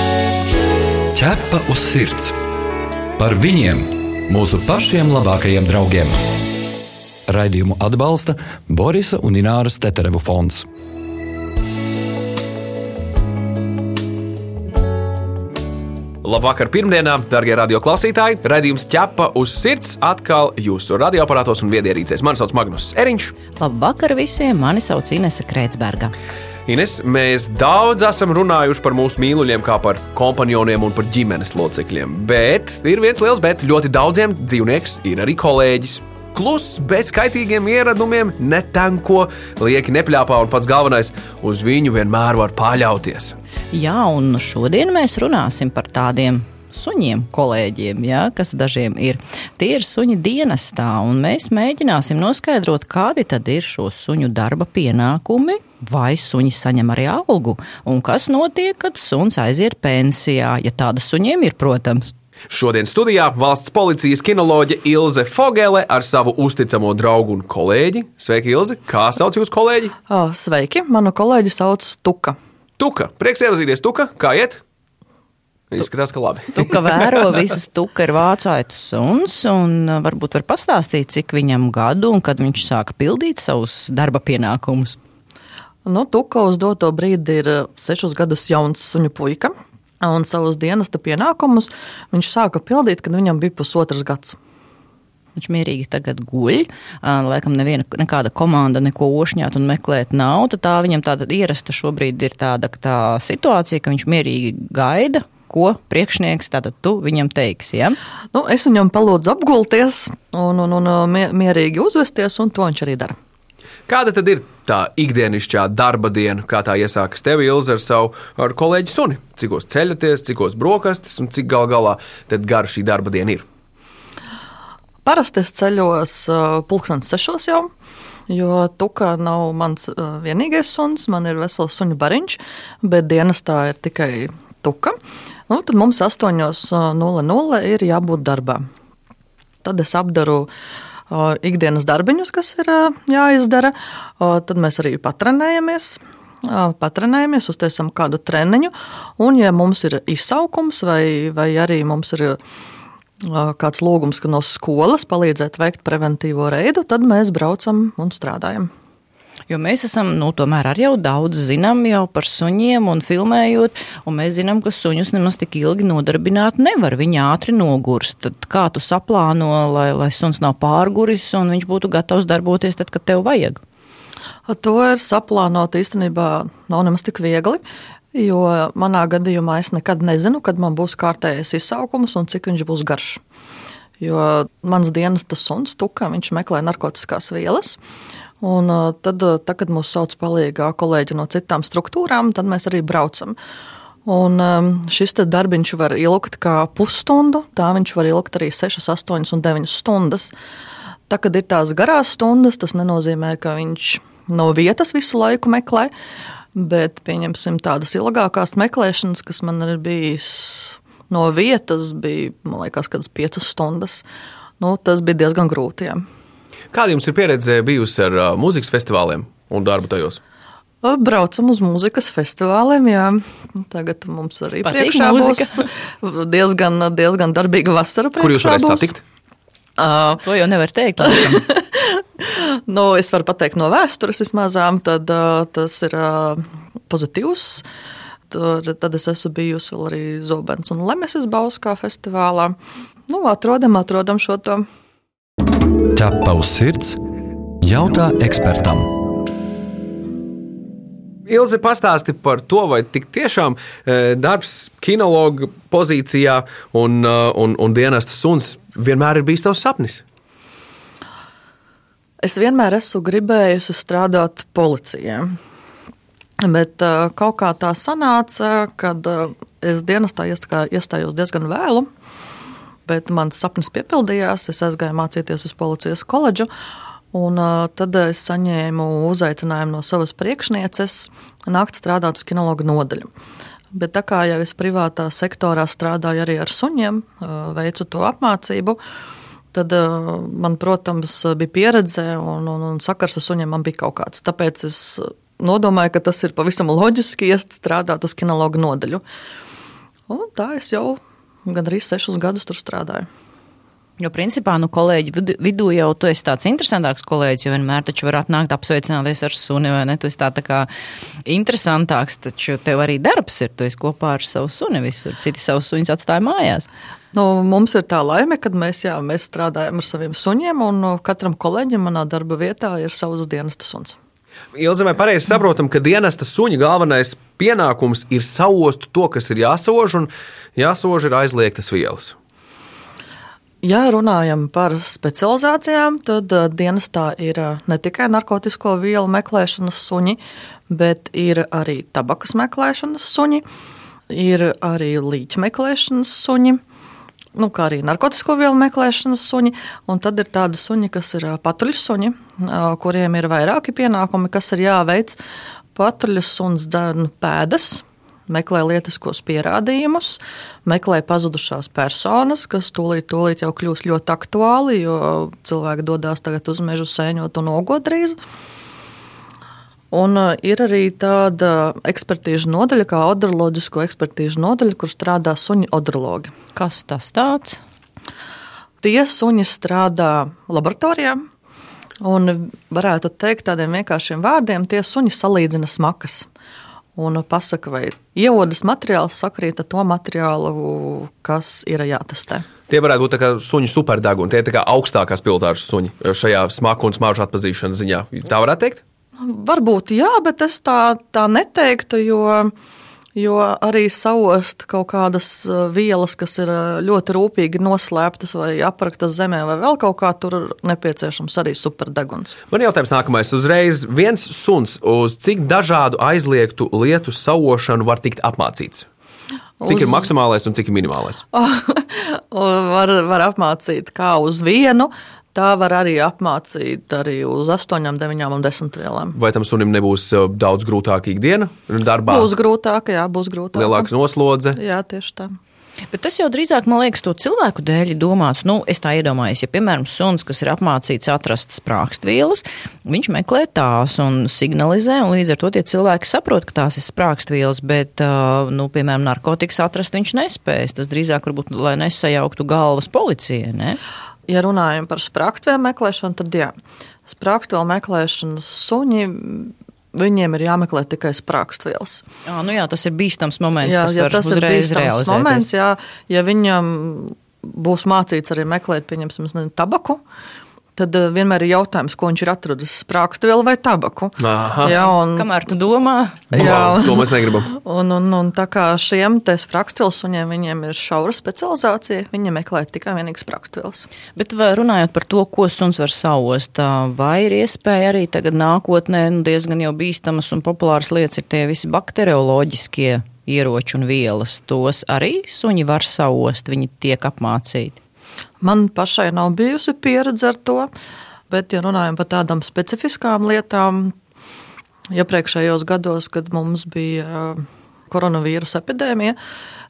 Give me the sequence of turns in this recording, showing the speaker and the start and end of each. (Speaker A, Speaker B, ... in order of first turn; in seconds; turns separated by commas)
Speaker A: 1.1-2.4, Speaker A: 3.2-6.3, Speaker A: 7.3-10.7, Speaker B: 16.2-23.3, Speaker C: 23.6-26.1, Speaker B: 26.7-43.4, Speaker C: 43.7-62.1, Speaker B: 62.5-70.0, Speaker D: 70.1-72.4, Speaker B: 72.8-74.6, Speaker B: 75.7-76.7, Speaker C: 76.5-85.0, Speaker D: 85.8-94.4, Speaker C: 95.4-108.0, Speaker D: 108.3-113.2, Speaker B: 113.9-123.5, Speaker D: 125.0-127.7, Speaker D: 128.3-135.0, Speaker D: 135.5-138.7, Speaker D: 139.6-140.5, Speaker D: 141.1-152.4, Speaker D: 153.2-158.7, Speaker C: 159.5-173.6, Speaker D: 174.5-177.6, Speaker D: 178.1-183.2, Speaker D: 184.0-187.8, Speaker D: 188.4-193.4, Speaker D: 194.1-200.3, Speaker D: 201.1-205.9, Speaker D: 206.5-214.1, Speaker D: 214.6-216.0, Speaker B: 216.7-220.2, Speaker D: 220.8-228.9, Speaker C: 224.6-225.7, Speaker B: 228.2-229.0, Speaker D: 229.8-230.2, Speaker C: 230.2-231.4, Speaker D: 231.0-237.7, Speaker D: 238.3-242.6, Speaker D: 243.1-244.7, Speaker A: 245.9-247.0, Speaker A: 247.6-248.9, Speaker B: 251.3-260.0, Speaker D: 262.2-265.4, Speaker D: 266.4-271.9, Speaker D: 272.9-276.5, Speaker D: 277.1-283.1, Speaker D: 283.7-288.8, Speaker D: 289.5-299.0, Speaker D: 300.1-303.1, Speaker C: 304.0-310.7, Speaker C: 311.3-316.7, Speaker D: 317.1-324.0, Speaker B: 324.6-332.1, Speaker D: 333.6-343.4, Speaker D: 344.1-346.6, Speaker D: 347.4-355.2, Speaker D: 355.8-368.2, Speaker D: 369.9-376.3, Speaker C: 376.6-377.6, Speaker D: 378.8-381.3, Speaker D: 382.0-386.3, Speaker D: 387.0-392.5, Speaker B: 392.7-398.8, Speaker D: 399.2-402.5, Speaker D: 403.1-412.4, Speaker B: 412.5-418.9, Speaker D: 419.6-420.1, Speaker B: 419.7-421.2, Speaker D: 421.3-429.2, Speaker B: 429.1-432.3, Speaker D: 432.1-433.9, Speaker B: 433.6-434.6, Speaker D: 434.6-435.4, Speaker C: 435.9-453.8, Speaker D: 454.3-456.5, Speaker D: 457.1-462.0, Speaker C: 462.3-465.4, Speaker D: 463.6-470.0, Speaker D: 470.8-475.3, Speaker B: 474.2-474.7, Speaker C: 474.7-476.2, Speaker D: 476.3-483.9, Speaker B: 476.3-477.5, Speaker C: 484.2-497.8, Speaker D: 498.4-500.7, Speaker D: 501.3-503.9, Speaker D: 504.9-509.2